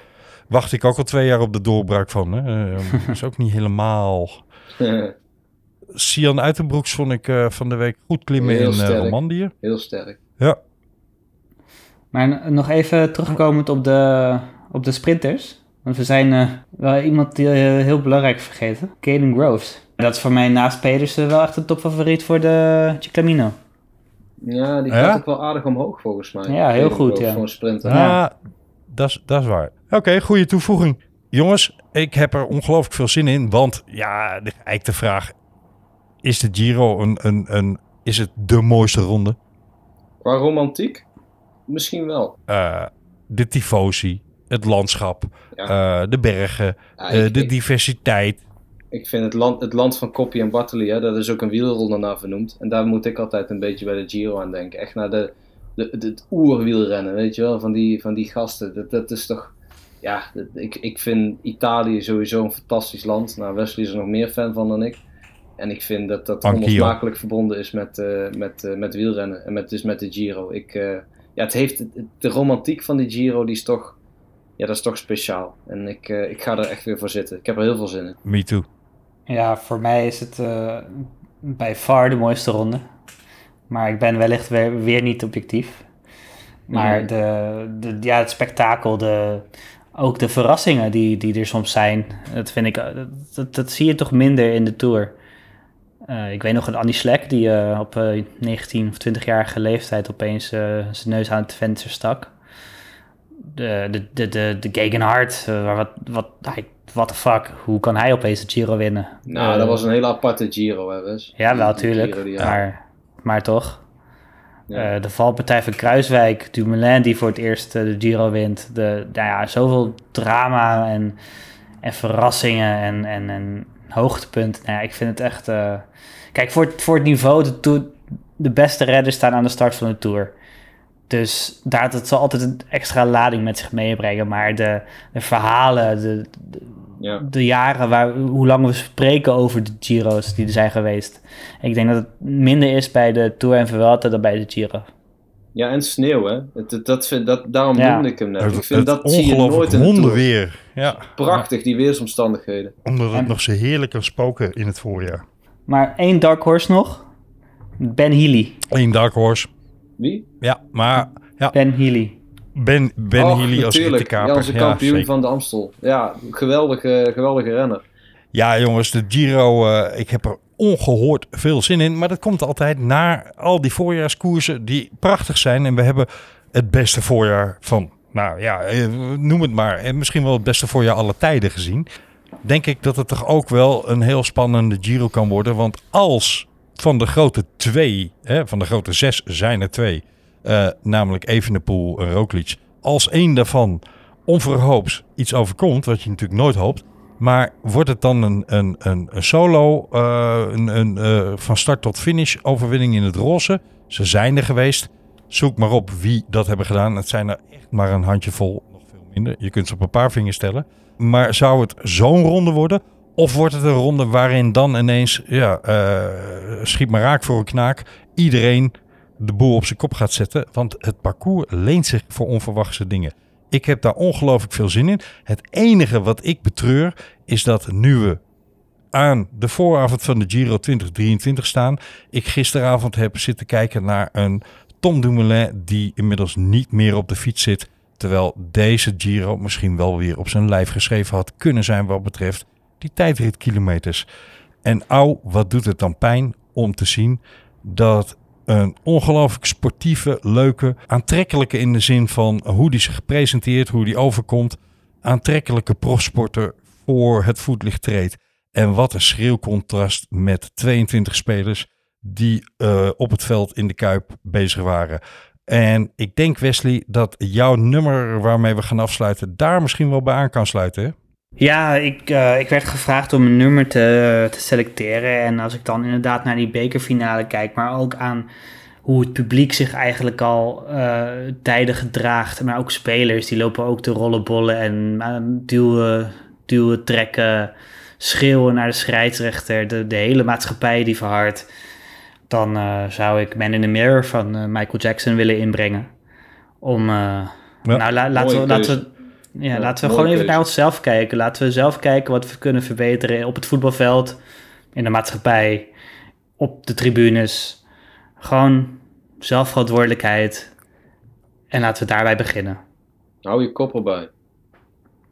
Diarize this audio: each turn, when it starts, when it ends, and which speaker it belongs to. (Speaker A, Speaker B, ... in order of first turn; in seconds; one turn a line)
Speaker A: 0.5-4.4
Speaker B: 4.8-5.1
Speaker A: 6.0-9.5
Speaker B: 8.4-10.2
Speaker C: 12.1-23.6
Speaker B: 24.4-28.0
Speaker A: 24.9-25.2
Speaker C: 26.5-28.2
Speaker A: 27.8-28.3
Speaker A: 28.9-35.3
Speaker A: 36.2-39.4
Speaker B: 40.2-41.0
Speaker B: 41.7-42.4
Speaker A: 42.5-48.4
Speaker B: 47.0-47.5
Speaker B: 48.9-65.0
Speaker B: 65.6-74.0
Speaker A: 66.4-67.0
Speaker B: 74.6-78.2
Speaker A: 78.2-78.7
Speaker C: 79.3-82.8
Speaker C: 83.7-85.8
Speaker C: 86.7-89.5
Speaker B: 86.7-87.1
Speaker C: 90.0-95.1
Speaker C: 96.1-102.3
Speaker C: 103.5-109.8
Speaker B: 109.3-112.6
Speaker C: 111.4-113.8
Speaker C: 114.8-121.2
Speaker C: 121.8-130.3
Speaker C: 131.1-136.7
Speaker C: 137.2-144.9
Speaker B: 145.6-150.2
Speaker C: 147.8-148.1
Speaker A: 148.4-151.5
Speaker B: 151.0-152.8
Speaker A: 152.8-155.2
Speaker C: 155.7-157.1
Speaker C: 157.8-158.6
Speaker A: 158.7-159.5
Speaker B: 160.0-160.3
Speaker A: 160.4-161.6
Speaker C: 161.5-162.2
Speaker A: 162.6-165.1
Speaker B: 163.2-167.8
Speaker A: 168.3-181.9
Speaker A: 182.4-228.2
Speaker A: 228.9-244.1
Speaker A: 244.6-270.9
Speaker C: 271.4-278.3
Speaker C: 278.9-291.5
Speaker C: 292.3-295.9
Speaker C: 296.6-304.2
Speaker B: 298.1-298.9
Speaker B: 299.5-300.4
Speaker C: 304.8-305.7
Speaker C: 306.4-307.6
Speaker C: 308.2-310.5
Speaker C: 311.5-312.6
Speaker B: 313.2-314.1